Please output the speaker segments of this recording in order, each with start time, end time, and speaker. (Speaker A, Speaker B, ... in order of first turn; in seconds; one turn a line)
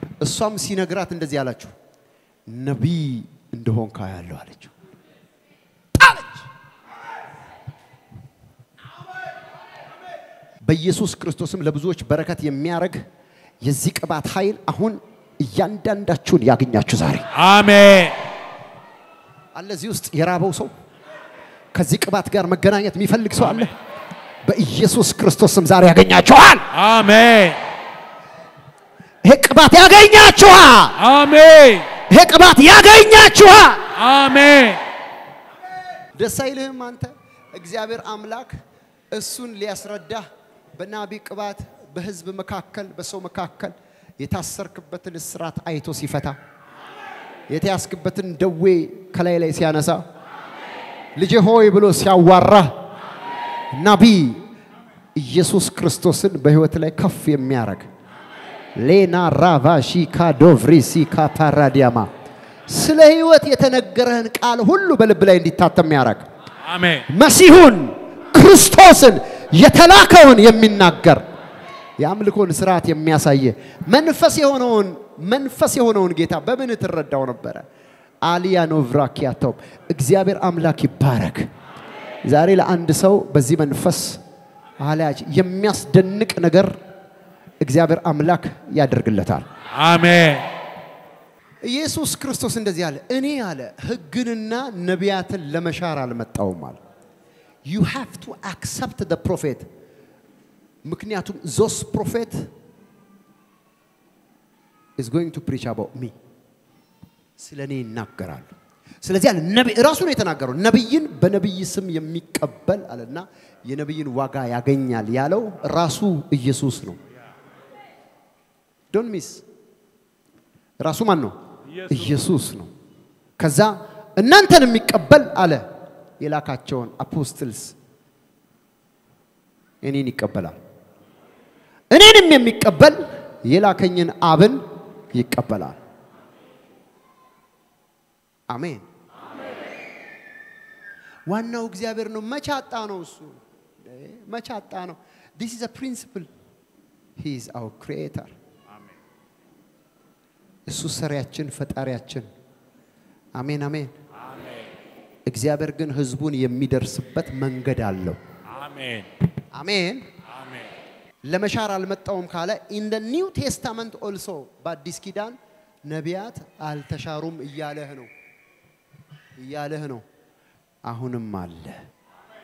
Speaker A: 0.2-1.7
Speaker A: 2.5-4.7
Speaker A: 6.0-6.5
Speaker A: 10.7-13.1
Speaker A: 13.6-17.3
Speaker B: 17.3-18.2
Speaker A: 19.6-20.7
Speaker A: 21.7-23.7
Speaker A: 24.5-26.7
Speaker B: 26.7-27.6
Speaker A: 29.2-31.0
Speaker B: 31.0-31.9
Speaker A: 32.1-33.9
Speaker B: 34.0-34.8
Speaker A: 36.2-38.6
Speaker A: 39.1-40.2
Speaker A: 40.8-46.4
Speaker A: 47.5-50.0
Speaker A: 51.2-52.8
Speaker A: 53.7-54.4
Speaker A: 55.2-57.9
Speaker A: 58.8-62.1
Speaker A: 62.7-66.3
Speaker B: 66.7-67.1
Speaker A: 67.1-71.3
Speaker A: 72.0-77.7
Speaker A: 78.2-81.5
Speaker A: 82.3-84.2
Speaker A: 84.8-86.8
Speaker A: 87.6-89.5
Speaker B: 89.7-90.5
Speaker A: 91.6-96.8
Speaker A: 97.7-99.7
Speaker A: 100.8-102.5
Speaker A: 105.0-106.2
Speaker A: 107.4-108.5
Speaker A: 109.0-117.0
Speaker A: 118.9-119.4
Speaker A: 120.8-121.3
Speaker A: 121.9-122.7
Speaker A: 123.4-125.6
Speaker A: 126.2-127.8
Speaker A: 129.8-130.6
Speaker A: 131.9-134.6
Speaker A: 135.1-135.8
Speaker A: 138.5-138.8
Speaker A: 141.3-146.3
Speaker A: 147.2-148.3
Speaker A: 150.7-152.3
Speaker A: 153.4-153.9
Speaker B: 154.2-154.6
Speaker A: 155.3-158.2
Speaker B: 158.5-159.1
Speaker A: 159.5-160.1
Speaker B: 160.3-160.7
Speaker A: 161.3-168.1
Speaker A: 169.4-170.0
Speaker A: 170.9-171.8